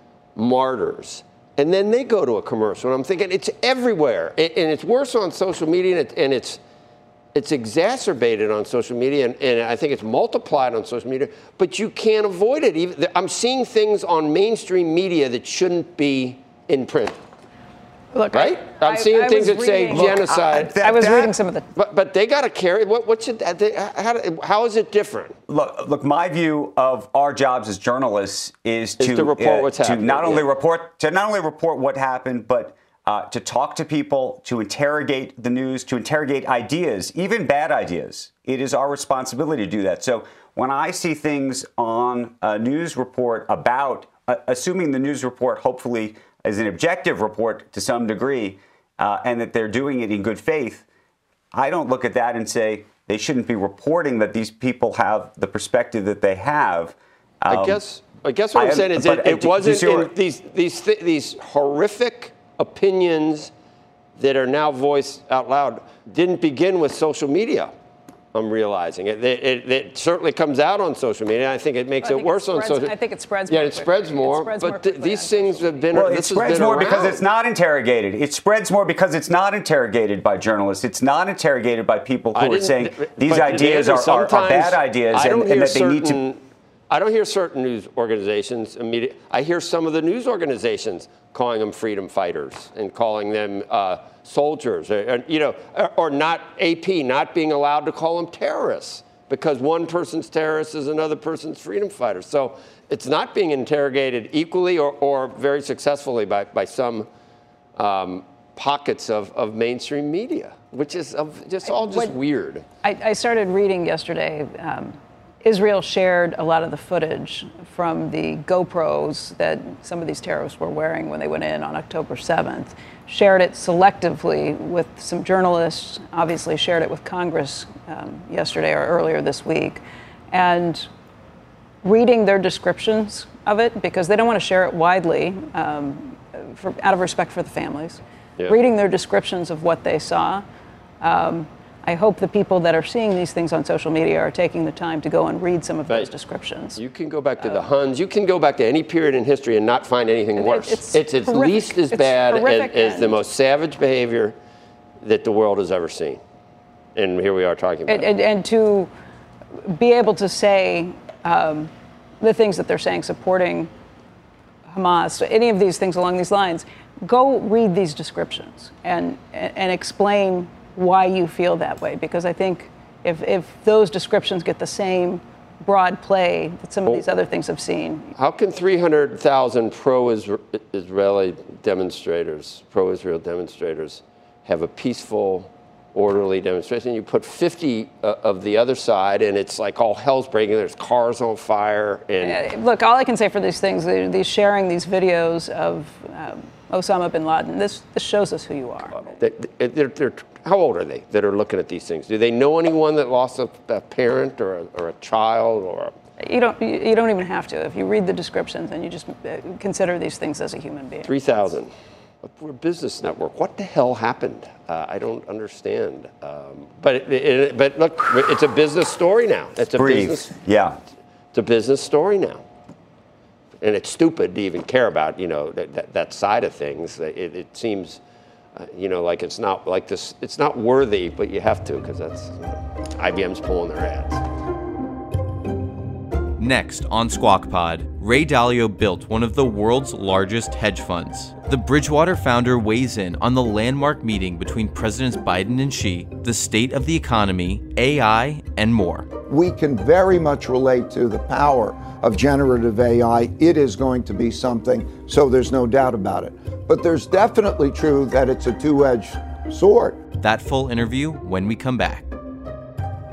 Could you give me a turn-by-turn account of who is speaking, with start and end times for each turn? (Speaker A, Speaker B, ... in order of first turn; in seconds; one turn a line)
Speaker A: 0.3-6.6
Speaker A: 7.3-17.2
Speaker B: 18.1-21.7
Speaker A: 18.3-20.8
Speaker C: 19.9-21.3
Speaker A: 21.8-25.4
Speaker C: 25.5-50.8
Speaker A: 29.0-30.4
Speaker C: 51.5-57.8
Speaker A: 57.5-63.5
Speaker C: 58.5-60.1
Speaker A: 64.2-67.7
Speaker A: 68.3-72.9
Speaker B: 72.0-76.0
Speaker A: 73.5-77.2
Speaker C: 75.9-86.2
Speaker A: 82.3-107.1
Speaker A: 107.8-112.6
Speaker B: 111.7-112.2
Speaker B: 112.8-130.9
Speaker B: 131.8-140.4
Speaker B: 141.0-146.8
Speaker A: 146.8-154.3
Speaker B: 147.4-147.7
Speaker B: 150.3-153.2
Speaker A: 155.0-156.2
Speaker A: 156.9-158.1
Speaker B: 157.9-158.9
Speaker B: 159.6-163.7
Speaker B: 164.7-178.1
Speaker A: 178.2-192.4
Speaker B: 192.2-199.0
Speaker A: 198.9-205.9
Speaker B: 206.2-211.4
Speaker A: 211.0-211.7
Speaker A: 212.2-220.3
Speaker C: 219.7-220.8
Speaker A: 221.3-222.4
Speaker A: 223.6-228.0
Speaker A: 228.6-234.2
Speaker D: 236.4-249.1
Speaker E: 249.3-260.0
Speaker D: 260.2-262.1